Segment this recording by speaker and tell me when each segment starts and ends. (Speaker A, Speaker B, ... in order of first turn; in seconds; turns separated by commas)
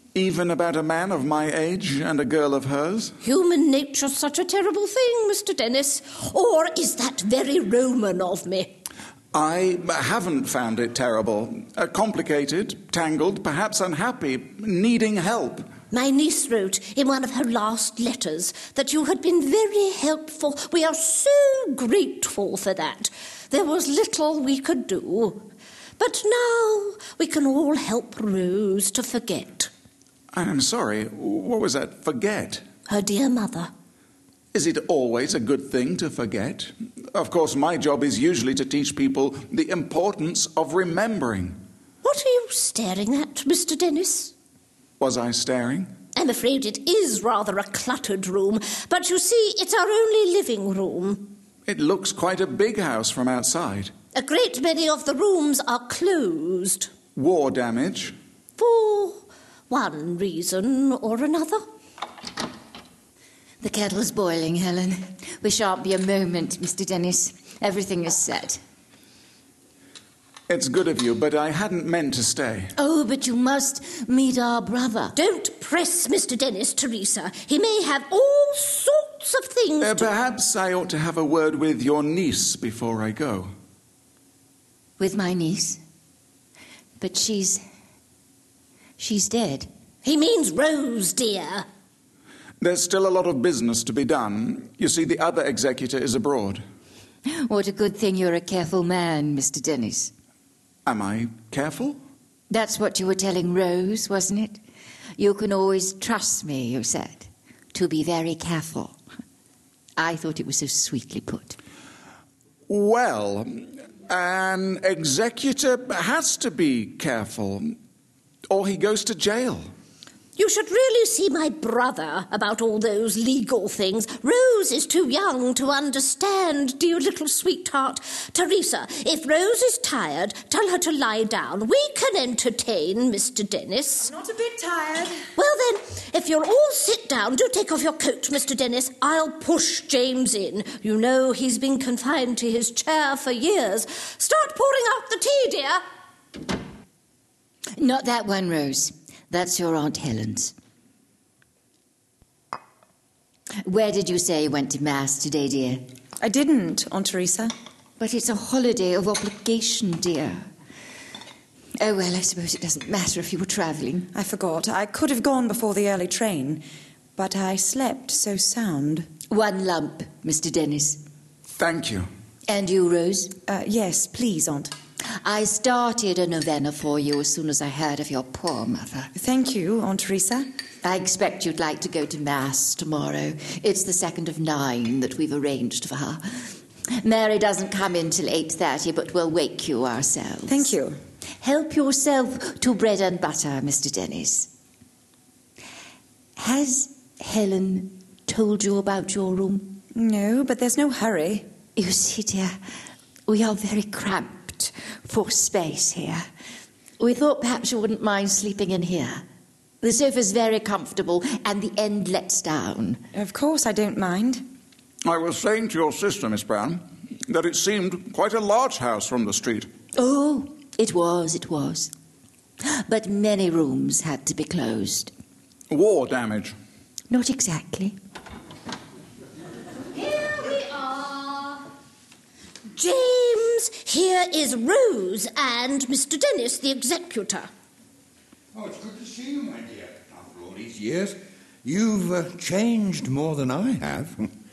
Speaker A: 0.1-3.1, Speaker B: 3.2-8.8, Speaker A: 9.3-15.7, Speaker B: 15.9-25.5, Speaker B: 26.0-29.7, Speaker A: 30.3-32.6, Speaker B: 32.9-33.7, Speaker A: 34.5-41.6, Speaker B: 42.0-44.3, Speaker A: 45.0-45.9, Speaker B: 46.1-51.3, Speaker A: 51.7-53.9, Speaker B: 54.1-56.9, Speaker A: 57.1-58.1, Speaker B: 58.6-61.6, Speaker C: 63.6-68.6, Speaker A: 70.5-72.7, Speaker C: 72.8-75.1, Speaker B: 75.1-80.1, Speaker A: 79.8-83.5, Speaker C: 85.0-85.8, Speaker C: 87.0-87.6, Speaker C: 89.0-89.7, Speaker B: 90.0-91.7, Speaker A: 92.6-96.6, Speaker C: 97.2-100.1, Speaker A: 100.8-102.0, Speaker C: 102.5-104.6, Speaker C: 105.2-109.0, Speaker C: 110.0-111.6, Speaker A: 112.7-117.7, Speaker A: 118.5-119.6, Speaker B: 120.3-134.1, Speaker D: 134.1-135.1, Speaker B: 135.3-145.8, Speaker C: 147.8-150.5, Speaker C: 153.6-155.8, Speaker D: 156.2-157.5, Speaker C: 158.0-160.5, Speaker C: 161.8-164.1, Speaker D: 164.1-166.6, Speaker D: 167.2-169.1, Speaker C: 169.3-171.0, Speaker A: 171.6-172.1, Speaker C: 172.5-173.3, Speaker D: 173.5-174.7, Speaker C: 175.2-179.1, Speaker D: 179.2-180.4, Speaker C: 180.8-186.4, Speaker C: 187.0-190.7, Speaker D: 190.5-190.9, Speaker C: 191.4-194.5, Speaker C: 196.4-199.8, Speaker D: 199.9-201.4, Speaker C: 201.8-202.5, Speaker C: 203.3-206.2, Speaker C: 207.0-209.2, Speaker C: 209.8-213.0, Speaker D: 213.1-214.4, Speaker A: 215.0-219.7, Speaker C: 220.0-221.9, Speaker C: 222.7-225.1, Speaker A: 225.7-226.5, Speaker C: 227.1-227.9, Speaker B: 229.9-231.6, Speaker B: 232.7-237.5, Speaker E: 238.5-244.2